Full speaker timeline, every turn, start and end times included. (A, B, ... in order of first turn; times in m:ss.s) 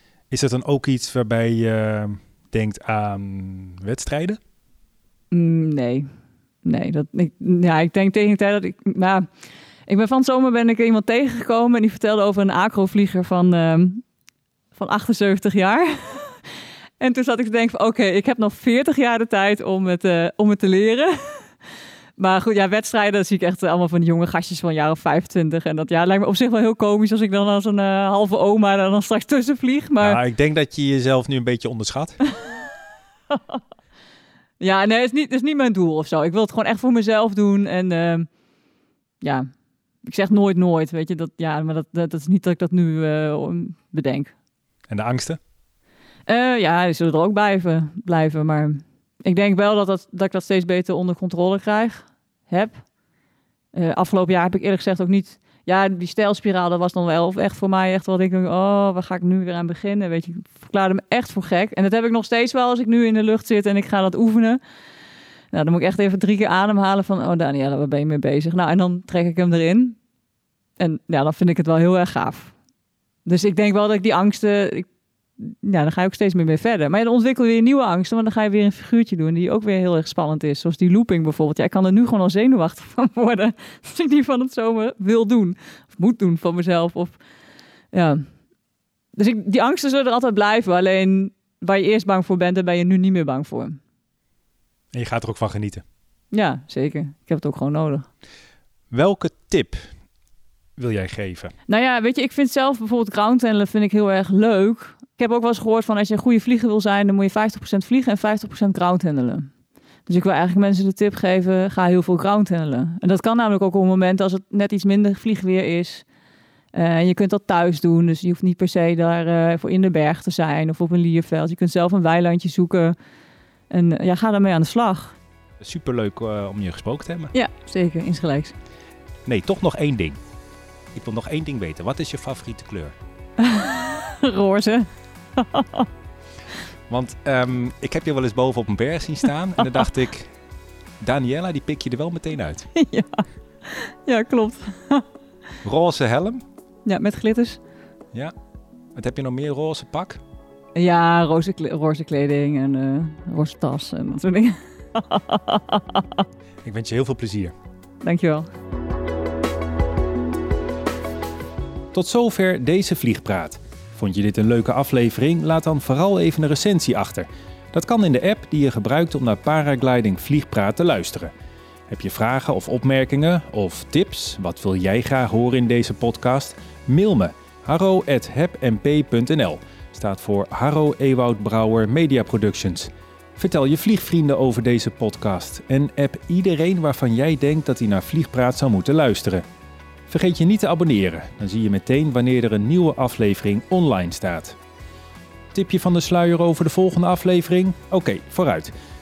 0:00.3-0:04.4 A
0:05.3-0:06.1 B
0:06.6-0:09.3 B
0:09.9-0:14.0 B
0:14.8-0:16.4 B
0:17.0-0:21.5 B
0:22.2-0:30.2 B
0:30.0-0:32.2 A
0:33.3-0:33.6 B
0:34.6-0:38.3 B
0:39.2-0:39.5 B
0:40.0-0:44.3 B
0:44.9-0:45.4 A
0:46.3-0:52.8 B
0:53.8-1:04.6 B
1:05.5-1:10.0 B
1:10.8-1:12.5 B
1:13.3-1:14.9 B
1:15.4-1:27.2 B
1:27.9-1:28.3 B
1:29.2-1:33.8 B
1:34.9-1:35.8 A
1:36.3-1:38.1 B
1:38.9-1:39.8 A
1:40.8-1:41.5 A
1:41.7-1:49.5 B
1:50.1-1:56.0 B
1:56.7-2:03.0 B
2:03.7-2:05.2 B
2:05.6-2:07.3 A
2:07.3-2:08.6 B
2:09.3-2:10.2 A
2:10.9-2:12.9 A
2:13.4-2:15.9 B
2:16.9-2:20.3 A
2:21.0-2:22.7 A
2:22.8-2:25.1 B
2:25.6-2:26.4 A
2:26.9-2:27.6 B
2:29.0-2:30.2 A
2:30.8-2:36.2 B
2:36.6-2:37.5 A
2:38.0-2:38.5 B
2:41.9-2:51.3 A
2:51.9-3:09.4 A
3:10.1-3:14.6 A
3:15.5-3:18.7 A